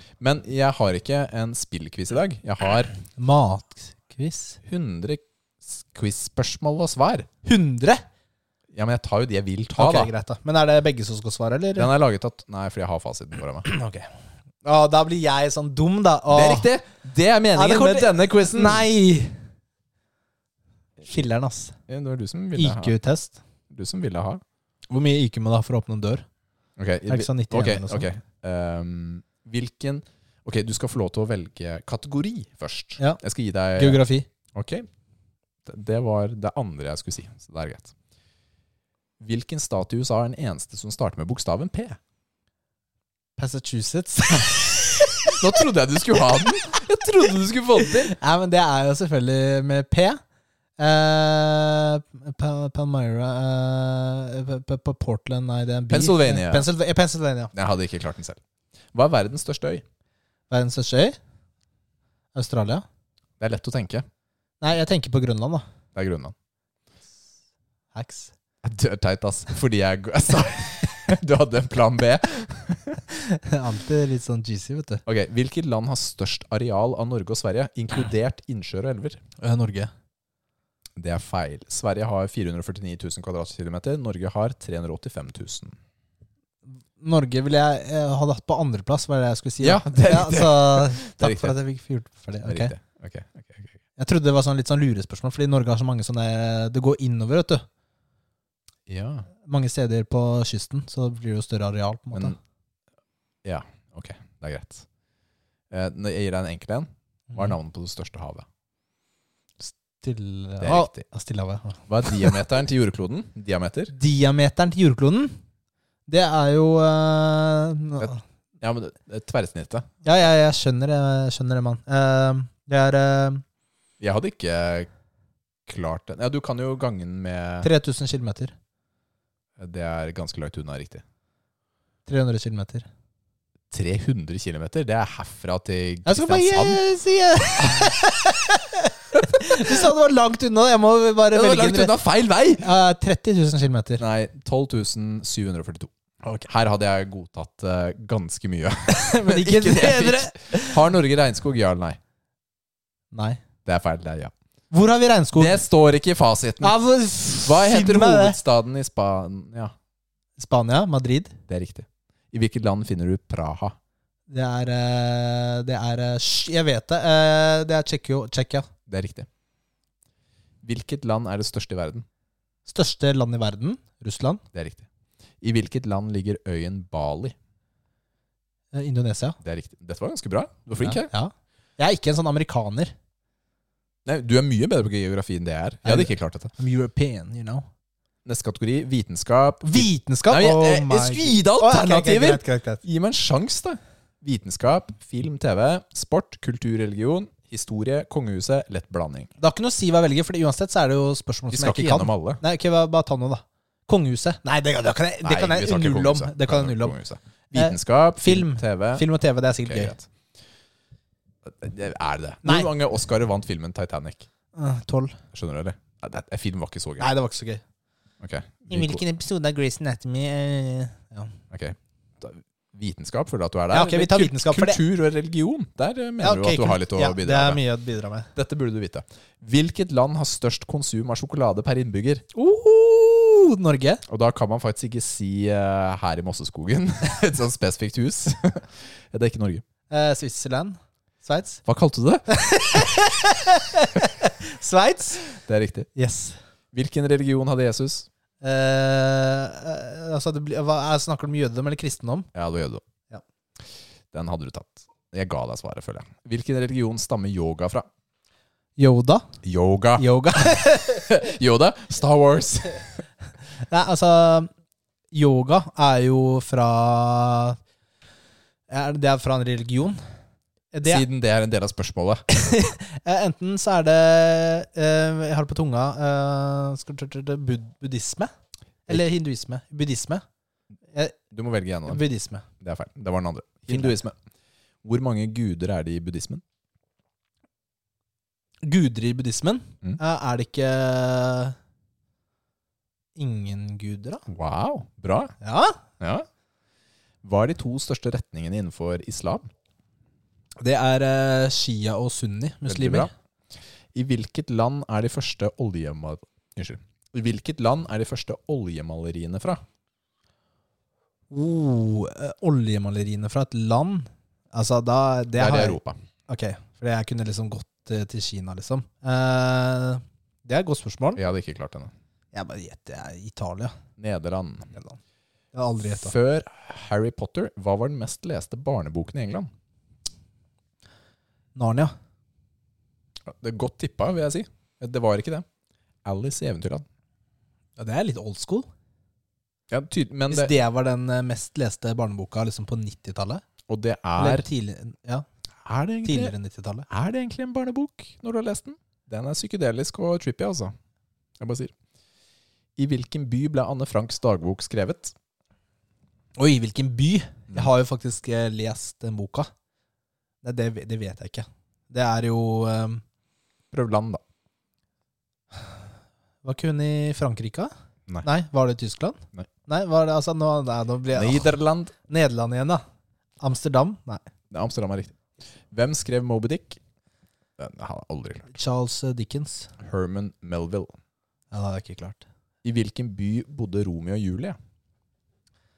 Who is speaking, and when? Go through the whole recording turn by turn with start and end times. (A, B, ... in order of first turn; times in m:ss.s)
0:00.2-0:02.9 A
0:03.2-0:04.6 B
0:04.6-0:07.3 A
0:07.4-0:08.0 B
0:08.7-0:10.1 A
0:09.8-0:11.9 B
0:11.8-0:13.7 A
0:13.6-0:14.1 B
0:14.6-0:16.7 B
0:16.3-0:18.8 A
0:17.5-0:19.4 B
0:21.0-0:21.8 B
0:21.9-0:22.9 A
0:22.6-0:23.4 B
0:23.7-0:24.4 A
0:24.9-0:26.2 B
0:26.8-0:34.0 A
0:27.1-0:28.0 B
0:33.8-0:34.3 B
0:34.5-0:34.9 A
0:35.6-0:37.9 A
0:39.2-0:42.0 A
0:43.4-0:45.5 B
0:45.3-0:48.1 A
0:47.8-0:50.2 B
0:50.8-0:57.5 B
0:55.9-0:56.7 A
0:57.5-0:58.4 A
0:58.9-0:59.8 A
1:00.5-1:01.2 B
1:02.3-1:02.8 B
1:03.4-1:04.0 A
1:04.6-1:05.6 B
1:05.9-1:06.3 A
1:07.9-1:08.3 B
1:08.6-1:13.0 A
1:13.1-1:15.0 B
1:15.0-1:19.2 A
1:19.4-1:19.9 B
1:21.0-1:25.8 A
1:27.0-1:32.7 B
1:29.6-1:31.6 A
1:32.4-1:33.8 A
1:34.0-1:37.6 B
1:38.9-1:39.3 A
1:39.4-1:42.4 B
1:43.4-1:44.8 A
1:45.7-1:48.4 A
1:49.6-1:52.4 B
1:50.6-1:51.0 A
1:51.9-1:53.9 A
1:53.9-1:55.4 B
1:56.1-1:58.2 B
1:58.0-1:59.9 A
2:00.0-2:03.4 B
2:04.0-2:04.9 A
2:05.6-2:07.7 A
2:07.6-2:08.5 B
2:09.6-2:11.0 A
2:12.0-2:12.8 B
2:13.7-2:16.8 A
2:16.0-2:21.9 B
2:17.6-2:17.9 A
2:21.3-2:22.6 A
2:22.6-2:24.0 B
2:24.0-2:25.9 A
2:26.5-2:32.0 A
2:28.9-2:30.8 B
2:33.1-2:33.4 B
2:33.6-2:34.3 A
2:34.7-2:35.6 B
2:35.4-2:36.7 A
2:36.6-2:38.4 B
2:37.4-2:39.7 A
2:40.4-2:41.4 B
2:41.5-2:43.8 A
2:44.3-2:48.7 B
2:48.9-2:49.3 A
2:50.6-2:52.0 A
2:52.7-2:54.4 B
2:54.5-2:54.9 A
2:55.4-2:57.3 A
2:58.7-2:59.4 B
2:59.4-3:01.1 A
3:00.8-3:02.9 B
3:04.0-3:06.5 A
3:05.8-3:07.6 B
3:08.2-3:19.3 A
3:09.7-3:12.8 B
3:19.4-3:27.0 B
3:21.5-3:22.4 A
3:25.2-3:29.0 A
3:27.5-3:30.0 B
3:29.6-3:30.1 A
3:31.4-3:34.3 A
3:32.4-3:32.7 B
3:34.5-3:35.2 B
3:35.3-3:37.1 A
3:37.0-3:37.6 B
3:38.2-3:39.0 A
3:38.7-3:41.3 B
3:41.5-3:47.6 A
3:43.7-3:44.8 B
3:46.2-3:48.3 B
3:48.4-3:52.2 A
3:52.3-3:54.0 B
3:54.1-3:59.6 A
3:59.9-4:01.6 B
4:01.6-4:02.2 A
4:02.3-4:05.2 B
4:05.4-4:05.9 A
4:06.0-4:06.4 B
4:06.7-4:08.1 A
4:08.4-4:12.3 B
4:12.3-4:12.8 A
4:14.1-4:17.9 A
4:18.8-4:19.3 B
4:19.4-4:23.0 A
4:20.0-4:21.0 B
4:23.7-4:24.5 B
4:25.1-4:27.6 B
4:28.7-4:30.0 B
4:30.7-4:31.0 B
4:30.8-4:32.2 A
4:32.3-4:38.3 B
4:38.9-4:40.2 B
4:41.3-4:42.0 A
4:41.9-4:42.5 B
4:42.6-4:44.2 A
4:43.7-4:43.9 B
4:44.8-4:46.4 A
4:48.6-4:51.6 B
4:53.2-4:54.2 B
4:54.3-4:55.3 A
4:55.4-4:55.8 B
4:56.0-4:56.2 A
4:57.2-4:59.5 A
5:00.6-5:03.1 B
5:02.6-5:03.1 A
5:03.9-5:09.6 A
5:11.3-5:15.8 B
5:15.4-5:16.0 A
5:16.3-5:21.2 B
5:21.2-5:21.9 A
5:22.3-5:23.7 B
5:24.0-5:24.7 A
5:25.5-5:26.1 B
5:25.8-5:29.5 A
5:31.6-5:31.9 B
5:33.2-5:35.4 A
5:36.0-5:36.8 A
5:37.8-5:38.7 B
5:39.7-5:40.5 A
5:40.3-5:43.4 B
5:43.7-5:44.4 A
5:44.2-5:45.2 B
5:45.6-5:46.3 A
5:46.0-5:46.9 B
5:46.9-5:50.7 A
5:51.4-5:51.7 A
5:52.8-5:55.1 A
5:56.4-5:59.5 B
6:00.4-6:03.0 B
6:03.7-6:04.2 A
6:06.4-6:07.7 B
6:08.2-6:11.5 B
6:11.1-6:11.9 A
6:12.1-6:12.8 B
6:13.4-6:14.2 B
6:14.5-6:15.1 A
6:15.7-6:16.8 A
6:17.6-6:18.5 A
6:18.5-6:19.7 B
6:19.8-6:20.9 A
6:21.5-6:22.2 B
6:22.6-6:24.6 A